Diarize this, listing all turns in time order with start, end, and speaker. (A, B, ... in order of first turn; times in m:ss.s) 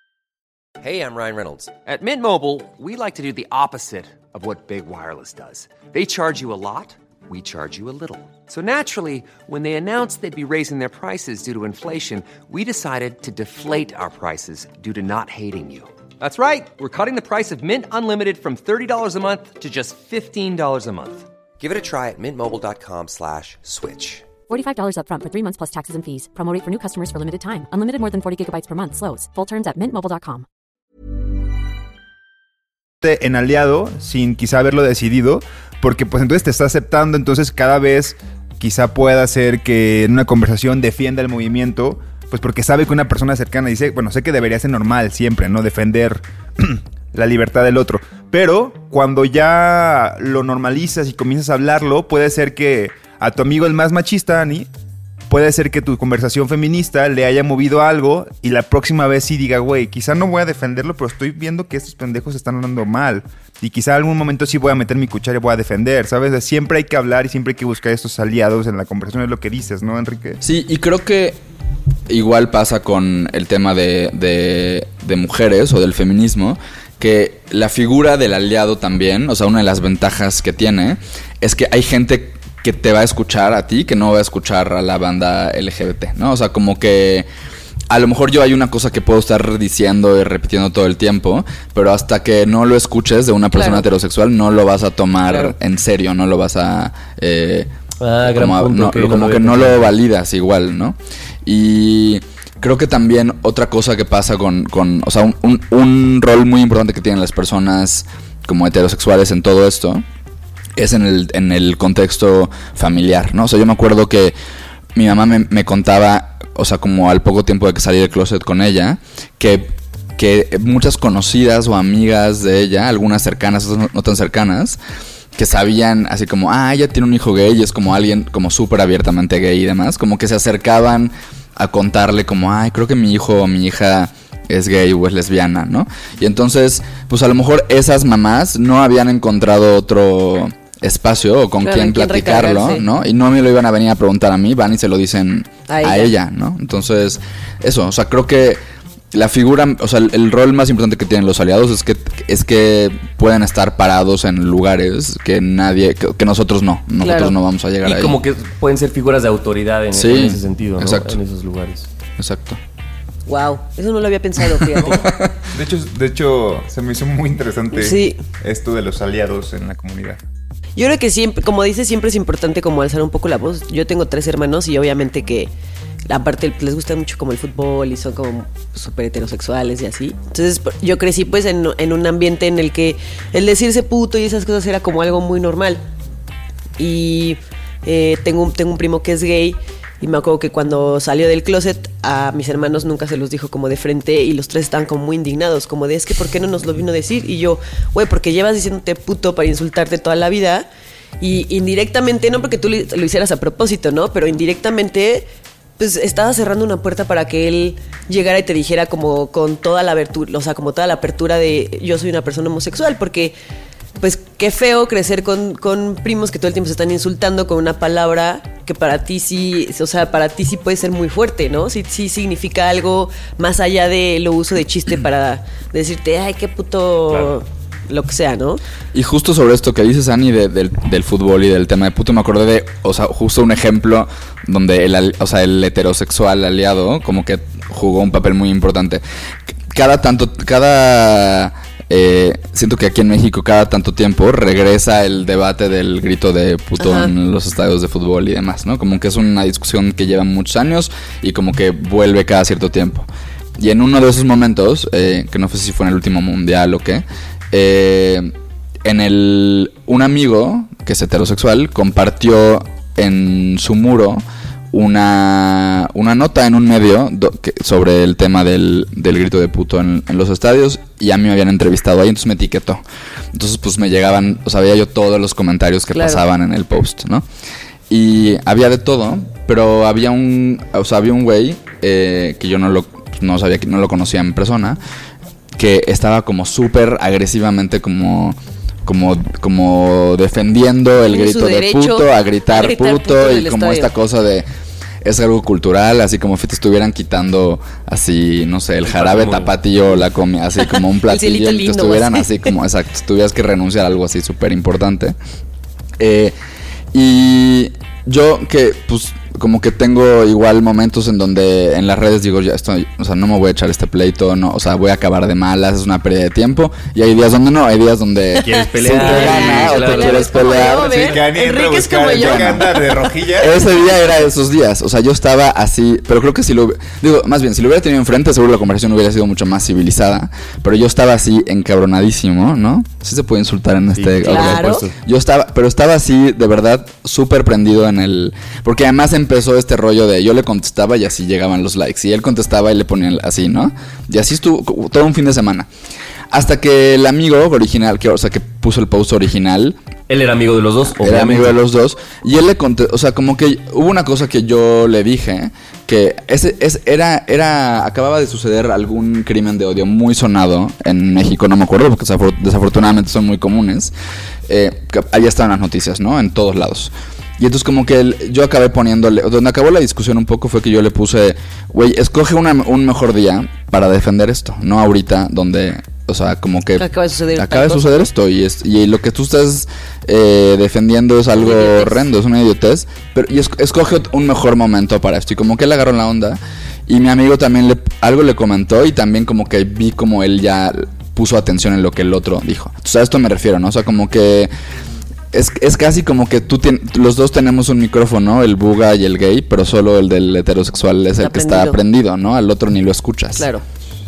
0:00.8-0:24.3 A
0:24.5-0:30.4 B
0:33.0-0:54.7 C
0:55.3-1:10.4 C
1:10.4-1:11.4 D
1:12.1-1:27.3 D
1:27.9-1:37.7 D
1:33.5-1:33.8 E
1:35.3-1:35.5 E
1:38.0-1:39.9 F
1:38.2-1:50.0 D
1:50.8-1:54.3 D
1:54.9-2:04.8 D
2:05.4-2:28.6 D
2:21.6-2:22.8 E
2:25.7-2:26.1 E
2:29.1-2:38.2 D
2:37.0-2:37.3 E
2:37.8-2:41.9 F
2:39.9-2:41.2 D
2:42.2-2:42.6 D
2:43.3-2:45.1 E
2:44.6-2:45.4 D
2:45.5-2:50.2 C
2:47.7-2:48.2 E
2:50.8-2:55.5 E
2:56.1-3:05.8 E
3:06.8-3:20.7 E
3:21.2-3:25.3 E
3:25.8-3:33.3 E
3:34.0-3:48.6 E
3:48.9-3:59.0 D
3:59.7-4:13.1 D
4:06.8-4:07.1 E
4:13.6-4:18.3 D
4:18.8-4:37.2 D
4:35.9-4:36.2 E
4:37.9-4:44.8 D
4:45.5-4:54.5 D
4:51.1-4:53.9 E
4:55.0-5:05.2 D
4:58.8-4:59.6 F
5:01.1-5:02.3 E
5:06.0-5:06.3 D
5:06.9-5:21.2 D
5:18.4-5:20.6 F
5:18.5-5:23.0 E
5:19.1-5:19.7 C
5:20.9-5:23.6 C
5:22.1-5:22.6 D
5:23.4-5:45.7 D
5:33.9-5:34.9 F
5:34.2-5:34.8 E
5:46.3-5:49.8 D
5:50.1-5:51.6 F
5:51.0-6:03.9 D
6:04.5-6:34.5 D
6:16.8-6:18.0 E
6:21.4-6:22.0 E
6:35.3-6:43.5 D
6:41.2-6:41.8 E
6:43.4-6:43.6 E